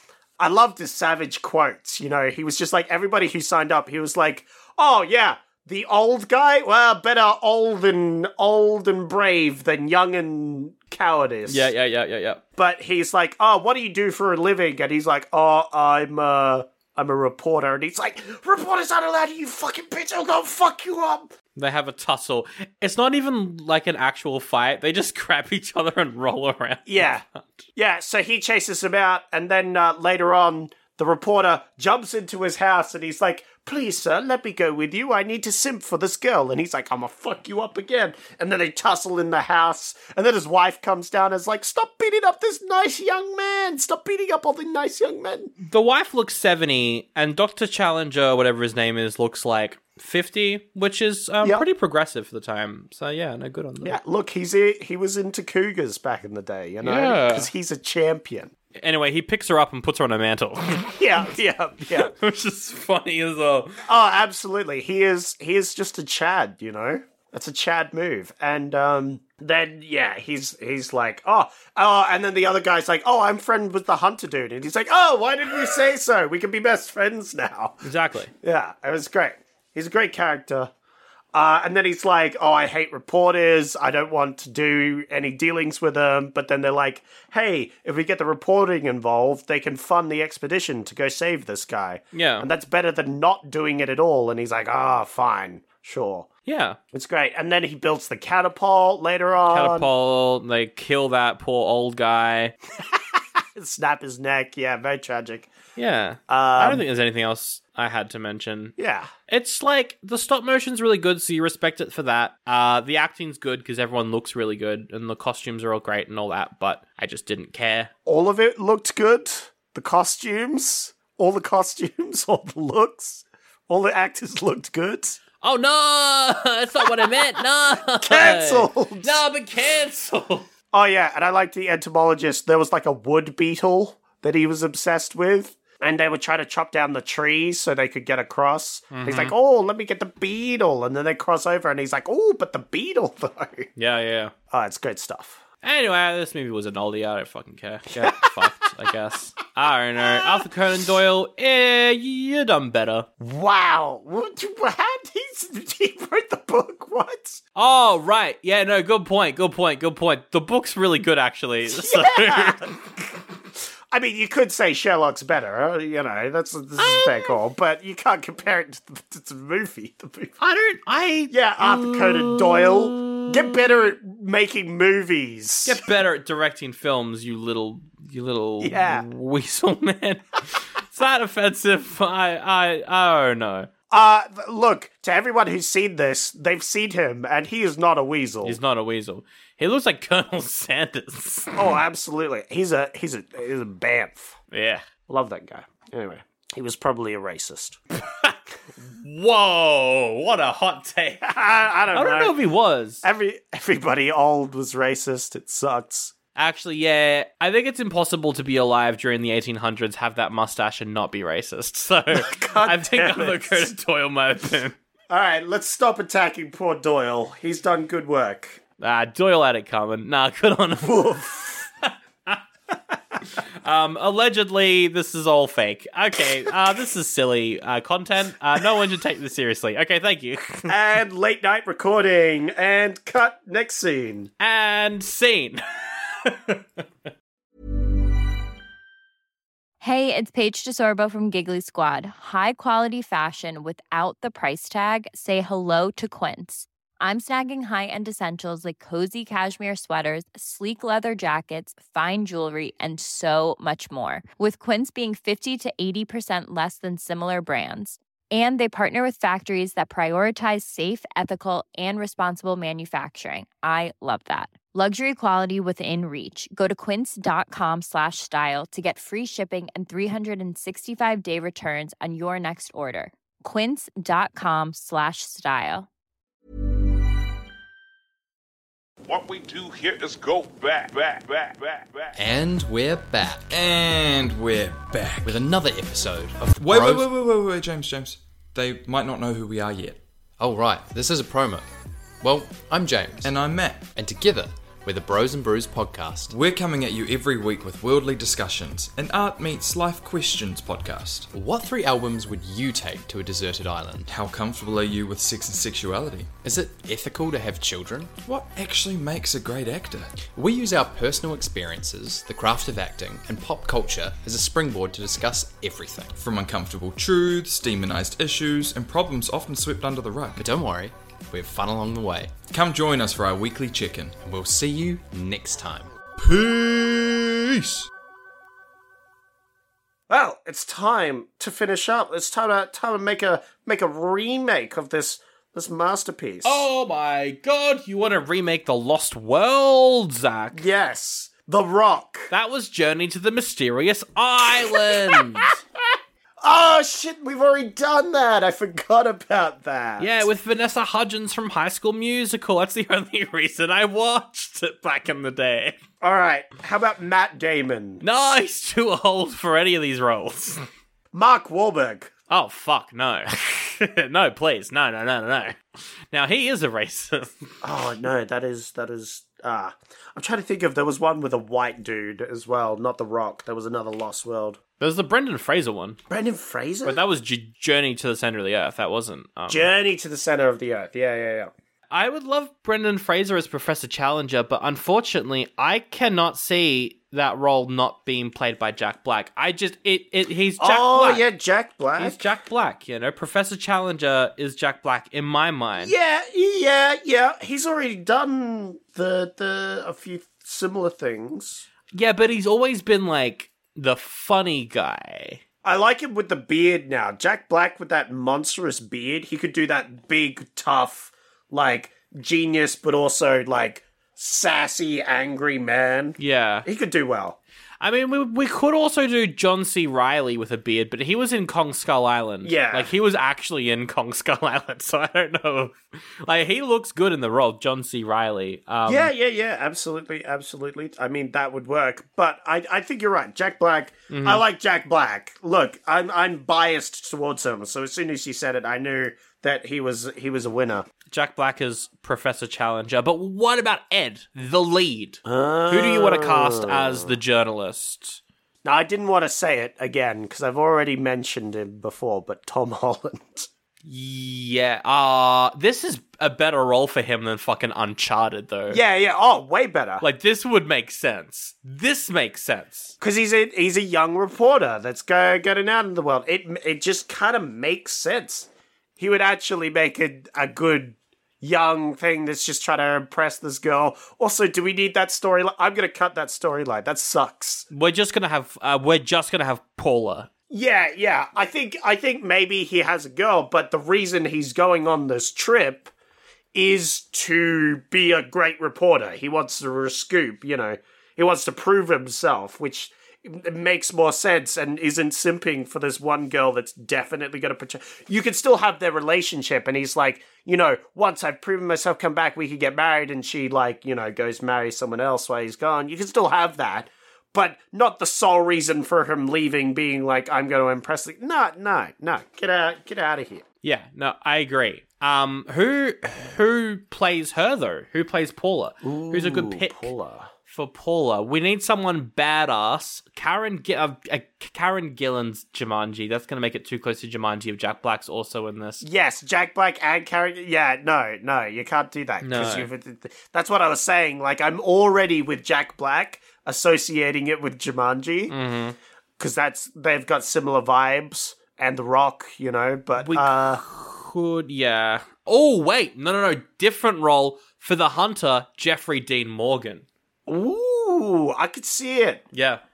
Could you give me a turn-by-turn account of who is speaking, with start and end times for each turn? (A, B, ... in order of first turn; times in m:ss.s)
0:00.4-0:11.7 A
0:11.5-0:12.4 B
0:12.6-0:21.3 A
0:21.6-0:27.6 B
0:26.8-0:27.2 A
0:27.8-0:45.5 A
0:45.6-0:54.0 B
0:53.8-0:58.5 A
0:56.8-0:57.5 B
0:58.8-1:00.9 B
1:00.9-1:02.1 A
1:01.9-1:03.8 B
1:03.9-1:17.8 A
1:17.8-1:18.3 B
1:18.4-1:20.7 A
1:21.3-1:36.3 A
1:32.1-1:32.5 B
1:36.4-1:36.8 B
1:36.9-1:39.9 A
1:39.5-1:42.5 B
1:42.8-1:45.5 A
1:45.8-1:48.7 B
1:46.3-1:46.8 A
1:48.8-1:49.1 A
1:49.3-1:57.9 B
1:58.0-2:05.2 A
2:05.4-2:10.5 B
2:06.8-2:07.2 A
2:08.0-2:09.2 A
2:10.7-2:23.7 A
2:18.9-2:19.3 B
2:23.8-2:24.3 B
2:24.5-2:25.4 A
2:25.6-2:33.1 B
2:28.0-2:28.4 A
2:30.0-2:30.4 A
2:33.2-2:37.4 A
2:37.5-2:42.7 B
2:41.7-2:43.2 A
2:43.9-2:50.3 A
2:46.8-2:47.3 B
2:50.4-2:53.6 B
2:51.3-2:55.8 A
2:55.6-3:03.7 B
2:58.6-2:59.1 A
3:03.9-3:08.6 A
3:08.4-3:11.5 B
3:11.5-3:14.4 A
3:14.5-3:14.8 B
3:15.1-3:17.8 A
3:18.1-3:21.3 B
3:21.2-3:22.4 A
3:21.9-3:23.0 B
3:23.0-3:26.1 A
3:26.4-3:34.7 B
3:32.1-3:33.7 A
3:35.1-3:38.6 A
3:38.8-3:41.3 B
3:40.8-3:41.6 A
3:41.9-3:42.4 B
3:43.4-3:50.7 B
3:50.6-3:54.3 A
3:54.4-3:56.6 B
3:59.8-4:35.9 C
4:39.1-4:42.1 D
4:42.2-4:43.4 E
4:43.5-4:45.4 F
4:45.2-4:47.1 E
4:46.6-4:50.0 F
4:50.4-4:51.7 E
4:52.2-4:53.3 E
4:53.2-4:53.9 F
4:53.9-4:56.3 E
4:56.3-5:01.3 F
5:01.3-5:04.1 E
5:04.1-5:06.3 F
5:06.4-5:08.1 E
5:08.2-5:10.1 F
5:10.3-5:16.2 E
5:16.2-5:20.5 F
5:20.4-5:22.3 E
5:22.5-5:24.2 F
5:24.2-5:25.9 E
5:26.2-5:27.9 F
5:30.1-5:36.6 A
5:36.4-5:40.6 B
5:40.5-5:42.3 A
5:42.3-5:45.5 B
5:44.4-5:45.6 A
5:46.4-5:50.3 A
5:50.0-5:55.8 B
5:56.0-5:58.0 A
5:58.0-6:00.6 B
6:01.1-6:02.1 A
6:02.3-6:05.6 B
6:06.1-6:07.4 B
6:07.6-6:14.6 A
6:14.8-6:16.0 B
6:16.1-6:17.0 A
6:16.8-6:19.7 B
6:19.5-6:21.5 A
6:21.9-6:31.2 B
6:30.6-6:32.2 A
6:32.0-6:35.9 B
6:35.8-6:41.6 A
6:41.9-6:45.4 B
6:45.6-6:57.4 A
6:56.2-6:56.7 B
6:57.8-7:09.1 B
7:02.4-7:02.9 A
7:08.8-7:20.9 A
7:14.1-7:14.4 B
7:21.1-7:28.2 B
7:25.2-7:27.2 A
7:28.6-7:33.5 A
7:33.8-7:38.8 B
7:38.7-7:40.0 A
7:40.0-7:42.9 B
7:43.0-7:57.7 A
7:57.7-8:00.3 B
8:00.5-8:05.9 A
8:06.5-8:33.4 A
8:33.6-8:39.9 B
8:38.8-8:40.3 A
8:40.5-8:48.8 B
8:48.8-8:58.3 A
8:52.2-8:52.7 B
8:58.3-8:58.8 B
8:59.2-9:03.6 A
9:03.0-9:09.8 B
9:10.3-9:12.2 A
9:12.3-9:12.6 B